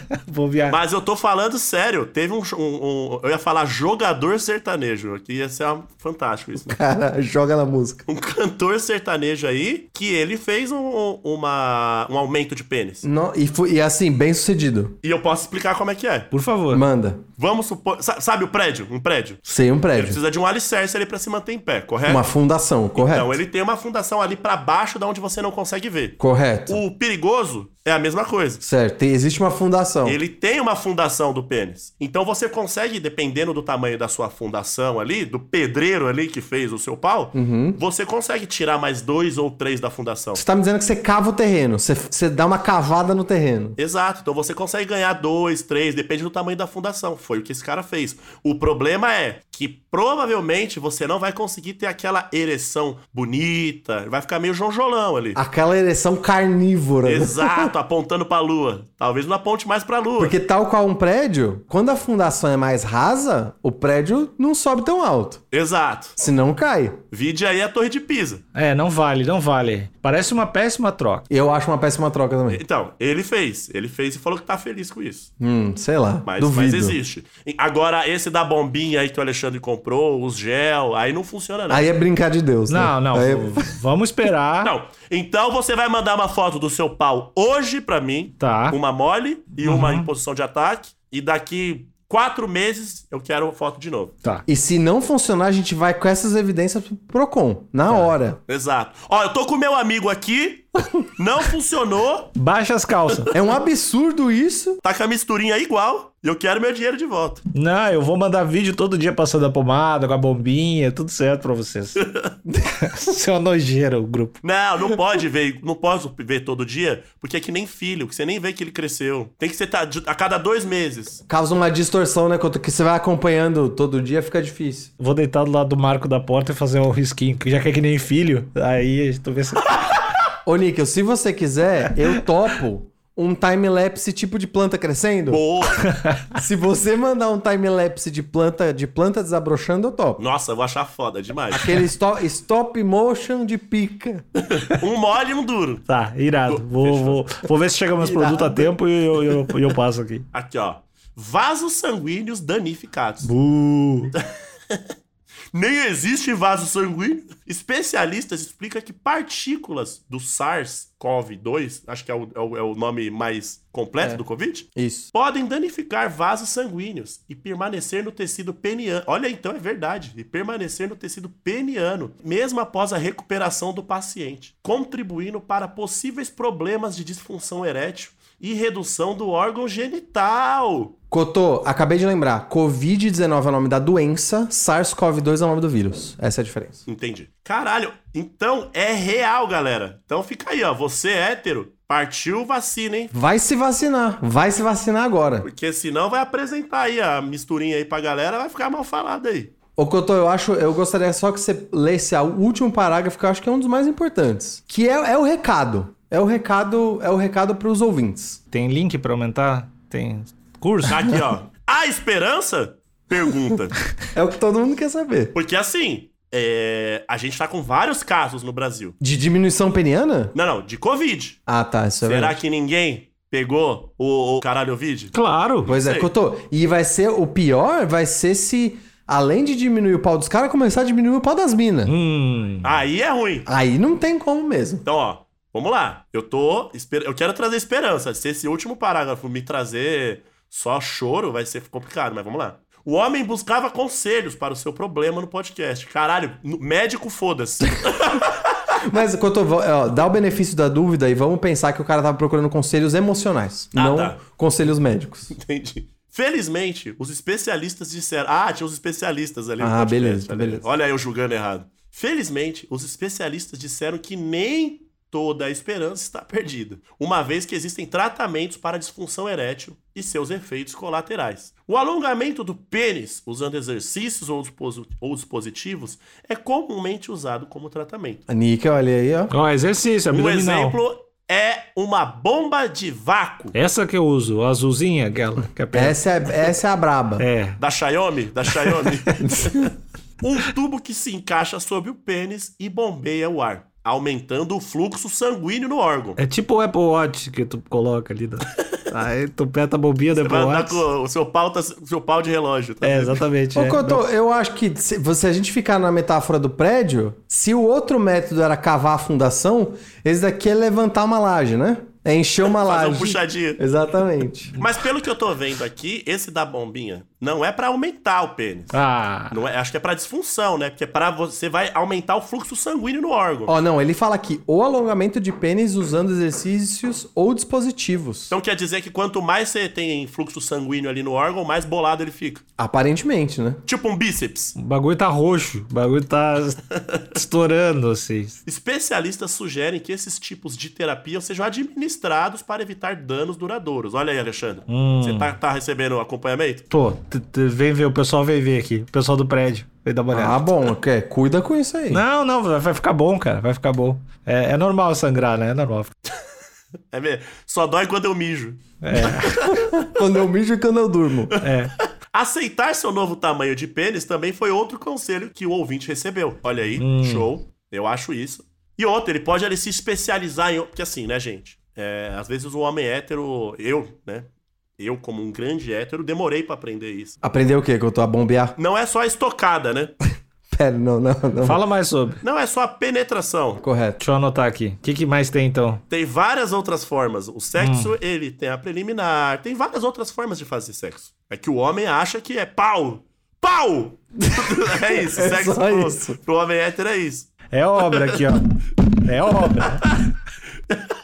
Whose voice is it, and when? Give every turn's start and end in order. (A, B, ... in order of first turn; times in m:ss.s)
0:00.2-0:00.8 A
0:00.7-0:06.8 B
0:06.6-0:08.0 C
0:08.1-0:13.1 B
0:13.0-0:15.0 C
0:15.0-0:16.3 B
0:16.3-0:16.8 A
0:16.7-0:17.2 C
0:17.4-0:19.4 B
0:19.5-0:20.2 C
0:19.9-0:22.3 B
0:22.0-0:23.4 C
0:23.0-0:28.6 B
0:26.2-0:26.8 C
0:28.6-0:30.2 C
0:30.0-0:40.4 B
0:37.3-0:37.8 C
0:40.4-0:43.8 C
0:43.8-0:55.4 B
0:55.4-0:57.7 C
0:57.0-1:00.4 B
1:00.2-1:05.4 C
1:05.5-1:06.2 B
1:06.2-1:07.0 C
1:07.1-1:08.4 B
1:08.5-1:11.2 A
1:11.3-1:12.6 C
1:12.5-1:15.3 B
1:15.4-1:17.0 C
1:16.3-1:21.9 B
1:21.7-1:23.8 C
1:22.7-1:24.7 A
1:24.6-1:34.1 B
1:28.4-1:28.8 A
1:29.6-1:30.1 A
1:34.5-1:38.4 C
1:38.5-1:42.3 B
1:42.4-1:43.3 A
1:43.3-1:44.8 C
1:44.8-1:47.4 B
1:47.5-1:52.0 A
1:52.0-1:52.4 B
1:52.5-1:52.8 C
1:52.8-1:54.4 A
1:54.4-2:01.2 B
2:01.3-2:04.9 C
2:05.0-2:09.8 A
2:10.5-2:15.4 C
2:15.3-2:15.9 B
2:16.4-2:20.2 C
2:20.2-2:21.7 B
2:21.5-2:24.2 C
2:24.5-2:25.9 B
2:25.9-2:30.2 A
2:26.5-2:27.3 B
2:28.0-2:28.8 C
2:30.3-2:33.3 B
2:33.2-2:34.1 A
2:35.5-3:00.9 B
2:44.8-2:45.1 C
3:01.1-3:06.8 C
3:06.9-3:13.1 B
3:13.1-3:15.5 C
3:15.4-3:19.5 B
3:19.8-3:28.4 C
3:28.5-3:31.1 A
3:30.9-3:33.8 B
3:34.2-3:35.3 C
3:35.3-3:39.0 B
3:39.0-3:40.3 C
3:40.3-3:41.4 B
3:41.5-3:42.4 C
3:42.0-3:46.1 B
3:45.1-3:45.7 A
3:45.7-3:51.9 C
3:51.9-3:52.8 A
3:52.6-3:53.5 B
3:53.5-3:54.8 C
3:54.8-4:08.5 B
4:08.9-4:15.4 C
4:13.7-4:14.2 B
4:15.3-4:38.2 B
4:19.6-4:20.7 C
4:38.3-4:39.3 C
4:39.3-4:40.8 A
4:40.1-4:43.6 B
4:43.5-4:46.5 A
4:45.7-4:47.3 C
4:47.2-4:47.6 A
4:47.6-4:56.2 B
4:49.2-4:49.7 C
4:56.2-5:00.8 A
5:00.2-5:03.2 B
5:02.8-5:04.0 A
5:03.5-5:14.6 C
5:12.6-5:13.6 B
5:14.6-5:18.8 B
5:18.7-5:19.4 A
5:19.3-5:23.6 B
5:23.5-5:28.3 C
5:28.3-5:32.4 B
5:32.6-5:33.6 C
5:33.6-5:34.6 B
5:34.6-5:36.6 A
5:37.1-5:38.4 A
5:38.4-5:46.7 B
5:44.7-5:45.4 A
5:46.7-5:50.5 A
5:50.1-5:52.0 C
5:51.9-5:55.9 A
5:56.9-5:59.9 B
5:58.8-5:59.3 A
5:59.4-6:01.3 C
6:01.4-6:01.7 A
6:02.1-6:17.2 B
6:06.8-6:07.3 A
6:17.2-6:18.6 C
6:18.6-6:19.9 B
6:20.5-6:21.6 C
6:21.4-6:22.2 A
6:22.2-6:23.6 B
6:23.6-6:24.0 C
6:24.0-6:25.8 A
6:25.9-6:38.2 B
6:27.6-6:28.0 A
6:34.9-6:36.2 C
6:37.5-6:38.4 A
6:39.0-6:39.8 A